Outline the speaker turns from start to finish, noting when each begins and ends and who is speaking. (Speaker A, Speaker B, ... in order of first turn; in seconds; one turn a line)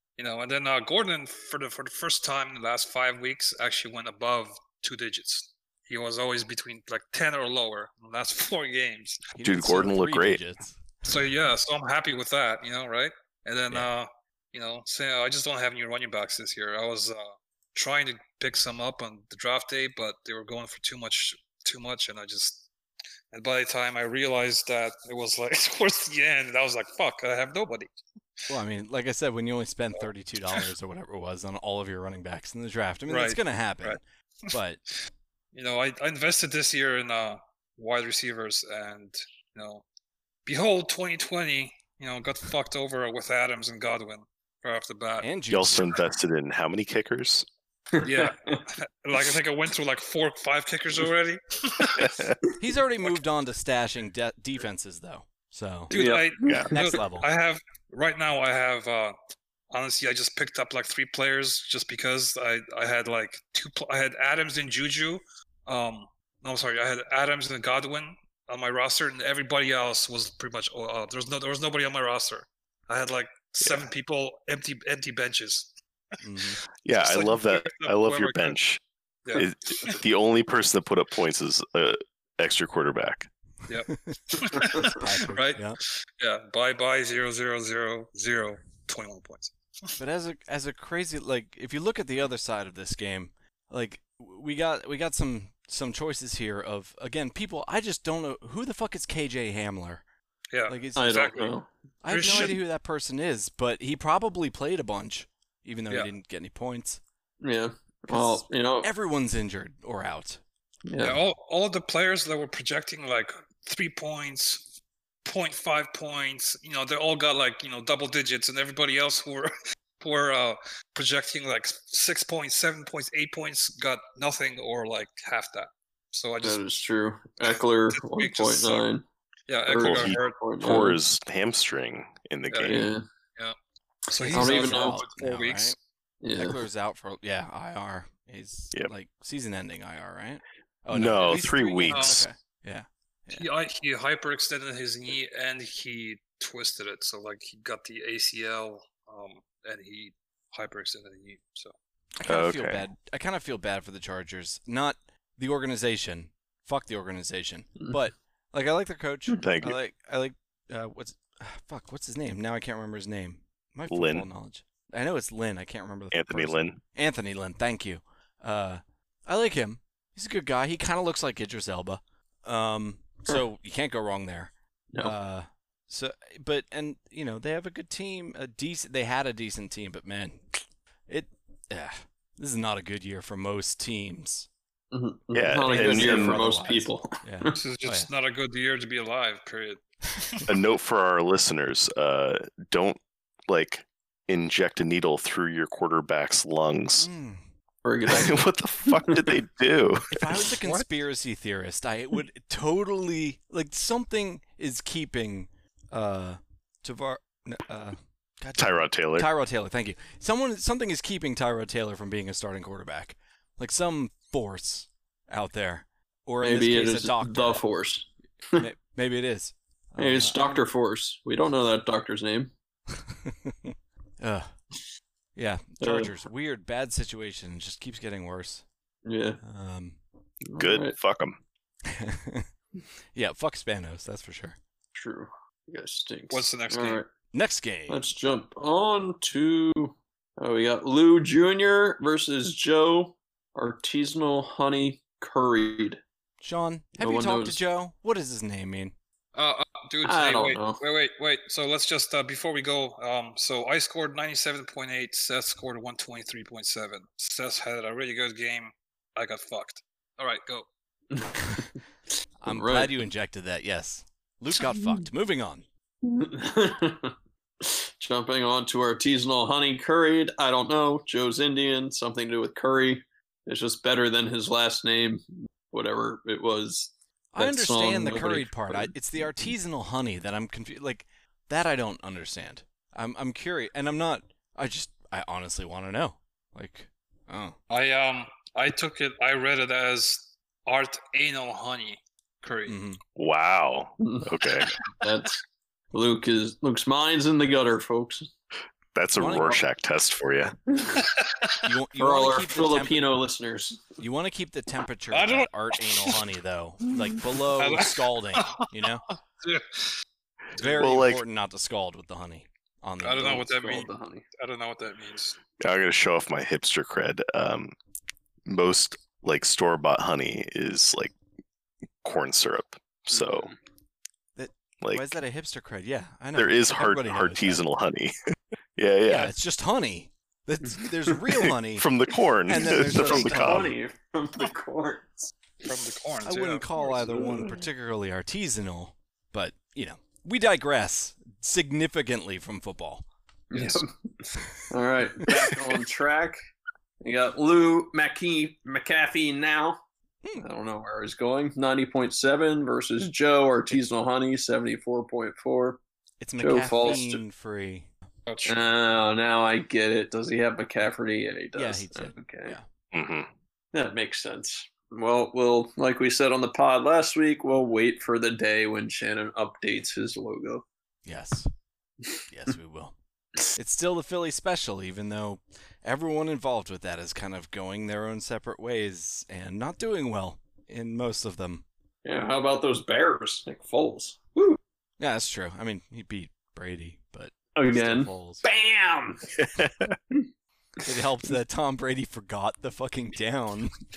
Speaker A: 0.2-9.2
Speaker B: 9.3-11.1
Speaker C: 9.4-10.4
Speaker A: 11.1-22.7
Speaker A: 23.3-27.9
Speaker B: 28.5-34.8
Speaker A: 30.0-30.6
Speaker A: 33.1-34.0
Speaker A: 35.5-39.8
Speaker A: 40.5-45.3
Speaker B: 45.2-45.9
Speaker C: 45.5-47.5
Speaker D: 47.9-48.6
Speaker A: 48.0-52.2
Speaker C: 52.0-52.4
Speaker B: 52.6-55.9
Speaker D: 55.9-56.8
Speaker A: 55.9-59.1
Speaker C: 56.4-56.7
Speaker B: 56.7-57.3
Speaker A: 59.7-75.7
Speaker C: 73.6-73.9
Speaker B: 76.2-76.6
Speaker C: 76.8-78.8
Speaker A: 77.0-78.6
Speaker A: 79.2-80.0
Speaker C: 79.3-83.3
Speaker A: 83.7-89.5
Speaker B: 83.9-85.8
Speaker B: 90.0-100.0
Speaker A: 100.5-101.5
Speaker B: 100.7-101.2
Speaker D: 101.0-101.7
Speaker B: 102.0-107.0
Speaker A: 102.1-102.6
Speaker D: 107.4-108.9
Speaker B: 108.1-110.4
Speaker D: 110.9-111.2
Speaker A: 111.0-114.7
Speaker A: 115.2-126.6
Speaker D: 126.4-129.0
Speaker A: 127.9-128.8
Speaker A: 129.5-130.4
Speaker D: 129.7-131.0
Speaker C: 129.8-132.9
Speaker A: 132.5-133.5
Speaker D: 132.7-133.0
Speaker A: 134.1-135.8
Speaker B: 134.2-135.8
Speaker D: 134.2-135.0
Speaker D: 136.2-136.6
Speaker B: 136.3-143.4
Speaker C: 140.9-142.2
Speaker A: 141.2-142.2
Speaker A: 143.3-151.7
Speaker B: 152.2-180.4
Speaker C: 152.2-152.8
Speaker C: 159.4-159.8
Speaker C: 163.9-164.3
Speaker C: 166.1-166.8
Speaker B: 181.1-184.5
Speaker D: 184.9-187.6
Speaker C: 185.3-186.4
Speaker B: 185.6-188.1
Speaker A: 187.5-190.4
Speaker C: 190.5-197.1
Speaker B: 197.0-197.4
Speaker D: 197.8-199.3
Speaker C: 198.1-200.4
Speaker B: 200.1-217.6
Speaker C: 208.6-209.3
Speaker D: 216.4-218.6
Speaker B: 218.6-220.6
Speaker D: 220.0-222.5
Speaker B: 223.0-224.5
Speaker B: 225.3-228.6
Speaker D: 225.8-226.1
Speaker D: 229.0-229.4
Speaker B: 229.4-230.0
Speaker D: 230.4-230.9
Speaker C: 230.6-231.4
Speaker B: 231.9-232.5
Speaker B: 233.1-234.6
Speaker D: 234.9-237.1
Speaker A: 236.3-237.0
Speaker B: 237.3-238.0
Speaker D: 237.9-246.0
Speaker B: 246.4-248.9
Speaker D: 247.0-247.6
Speaker A: 249.3-260.6
Speaker D: 250.0-250.8
Speaker D: 261.1-261.7
Speaker B: 262.4-265.6
Speaker D: 262.5-262.9
Speaker D: 266.0-278.9
Speaker B: 277.3-287.6
Speaker A: 287.7-292.7
Speaker B: 292.7-293.0
Speaker C: 293.1-294.7
Speaker D: 294.0-294.3
Speaker D: 294.9-295.4
Speaker D: 295.9-298.3
Speaker C: 298.9-300.6
Speaker B: 299.1-299.6
Speaker D: 300.7-301.0
Speaker A: 301.0-301.6
Speaker B: 301.6-303.1
Speaker D: 302.0-303.9
Speaker B: 304.0-309.0
Speaker A: 305.1-306.2
Speaker A: 307.5-308.7
Speaker A: 309.4-309.9
Speaker B: 310.5-313.5
Speaker C: 310.8-311.2
Speaker A: 313.0-315.4
Speaker D: 313.2-314.2
Speaker C: 315.6-317.7
Speaker C: 318.4-321.1
Speaker C: 322.0-323.5
Speaker D: 323.1-323.5
Speaker B: 324.4-327.6
Speaker C: 324.8-325.1
Speaker C: 326.3-328.1
Speaker C: 328.8-329.3
Speaker B: 329.1-331.9
Speaker C: 331.7-333.7
Speaker B: 332.5-333.7
Speaker D: 332.6-335.3
Speaker A: 335.6-336.7
Speaker B: 336.2-343.0
Speaker D: 336.8-337.6
Speaker D: 343.5-346.4
Speaker A: 343.5-343.8
Speaker D: 347.0-349.8
Speaker D: 350.4-355.8
Speaker B: 356.2-357.9
Speaker D: 356.4-357.2
Speaker A: 358.3-358.6
Speaker D: 358.4-362.6
Speaker B: 361.5-362.6
Speaker C: 362.9-363.3
Speaker D: 363.7-370.6
Speaker B: 371.1-371.5
Speaker B: 372.3-372.9
Speaker B: 373.5-381.6
Speaker D: 382.0-384.6
Speaker B: 385.0-388.4
Speaker D: 387.5-389.3
Speaker C: 389.4-389.9
Speaker B: 390.8-393.8